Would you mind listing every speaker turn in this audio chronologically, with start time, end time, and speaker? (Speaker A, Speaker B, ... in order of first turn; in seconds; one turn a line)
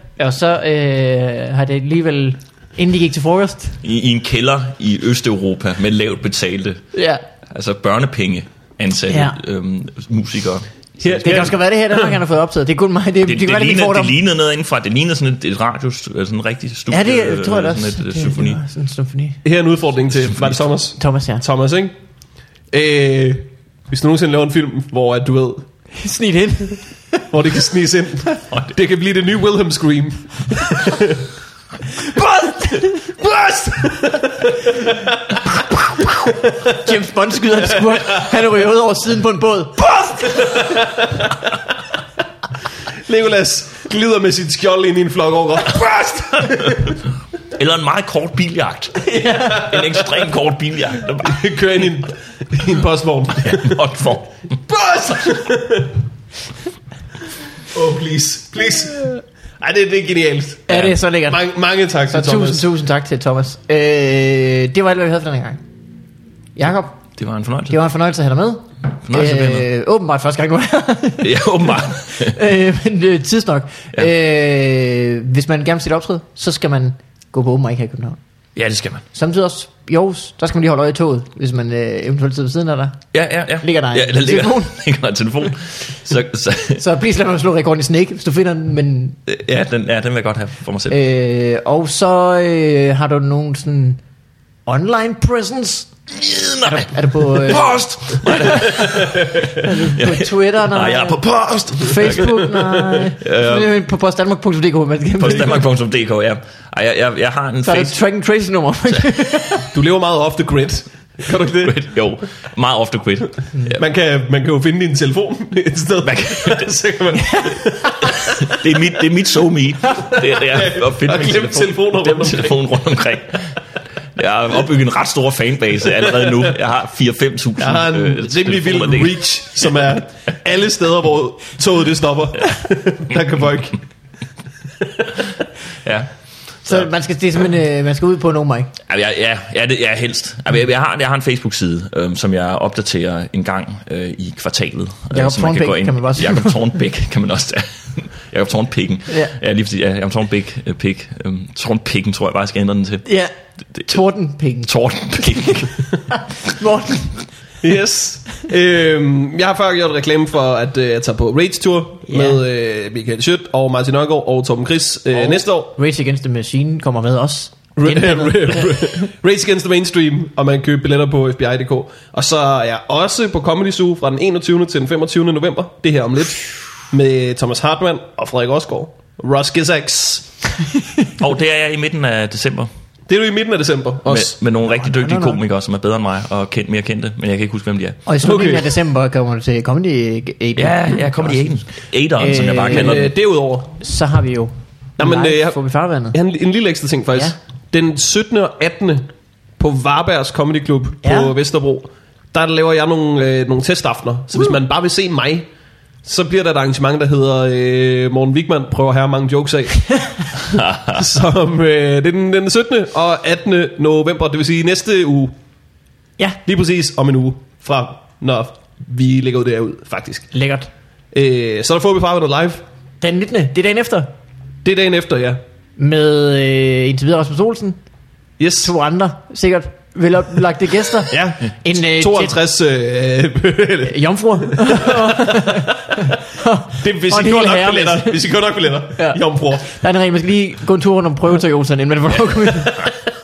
Speaker A: 0.2-3.8
Speaker B: 3.8-6.8
Speaker A: 6.9-7.2
Speaker B: 7.5-11.5
Speaker A: 9.1-9.4
Speaker C: 11.0-12.0
Speaker A: 11.2-14.2
Speaker B: 13.2-18.6
Speaker A: 16.9-19.4
Speaker C: 19.4-21.9
Speaker B: 20.3-20.6
Speaker A: 21.0-21.4
Speaker C: 22.7-25.6
Speaker A: 26.0-27.2
Speaker C: 27.3-31.2
Speaker A: 32.0-33.6
Speaker C: 33.2-35.1
Speaker A: 36.6-40.9
Speaker C: 40.4-41.3
Speaker C: 43.0-47.0
Speaker B: 46.6-46.9
Speaker B: 47.5-51.5
Speaker A: 49.0-49.9
Speaker C: 51.2-53.8
Speaker B: 53.4-54.5
Speaker C: 54.7-56.0
Speaker C: 57.7-62.7
Speaker A: 60.7-61.4
Speaker A: 62.1-65.6
Speaker A: 66.6-67.0
Speaker B: 67.2-67.8
Speaker A: 67.7-78.2
Speaker B: 69.1-69.7
Speaker B: 71.2-72.4
Speaker B: 78.6-79.1
Speaker A: 79.1-83.0
Speaker B: 83.1-86.8
Speaker A: 83.6-84.8
Speaker A: 86.8-89.2
Speaker B: 89.3-91.0
Speaker A: 90.9-94.0
Speaker A: 94.7-95.9
Speaker B: 96.1-102.6
Speaker A: 96.6-97.8
Speaker A: 98.4-105.6
Speaker C: 98.9-99.4
Speaker B: 103.2-103.7
Speaker B: 105.2-108.0
Speaker A: 107.6-109.7
Speaker C: 109.7-111.9
Speaker B: 111.6-113.8
Speaker C: 113.8-118.5
Speaker B: 116.0-116.8
Speaker A: 117.2-118.0
Speaker B: 118.1-123.6
Speaker C: 120.4-122.6
Speaker B: 124.2-129.8
Speaker C: 127.6-133.8
Speaker B: 135.8-136.1
Speaker B: 136.6-136.9
Speaker A: 136.7-138.7
Speaker B: 138.9-153.1
Speaker A: 145.1-146.6
Speaker A: 149.1-149.3
Speaker A: 153.1-153.3
Speaker A: 153.9-157.3
Speaker B: 154.7-155.7
Speaker C: 157.6-165.7
Speaker A: 162.1-162.4
Speaker A: 165.8-169.1
Speaker C: 167.8-180.5
Speaker B: 181.2-182.7
Speaker C: 183.1-184.4
Speaker B: 184.1-188.0
Speaker A: 184.8-185.4
Speaker A: 188.1-191.4
Speaker C: 188.2-188.7
Speaker B: 190.6-193.1
Speaker A: 192.2-193.0
Speaker C: 192.7-193.8
Speaker A: 193.8-196.2
Speaker C: 195.0-195.6
Speaker C: 196.1-205.5
Speaker A: 201.0-201.3
Speaker C: 206.1-215.3
Speaker B: 210.6-210.9
Speaker C: 216.4-220.3
Speaker A: 220.3-220.7
Speaker C: 221.1-222.6
Speaker A: 223.0-224.1
Speaker C: 224.6-225.4
Speaker A: 225.8-227.8
Speaker C: 228.4-228.7
Speaker A: 228.6-232.4
Speaker C: 231.1-235.7
Speaker A: 233.8-238.3
Speaker C: 236.8-239.7
Speaker A: 239.0-242.9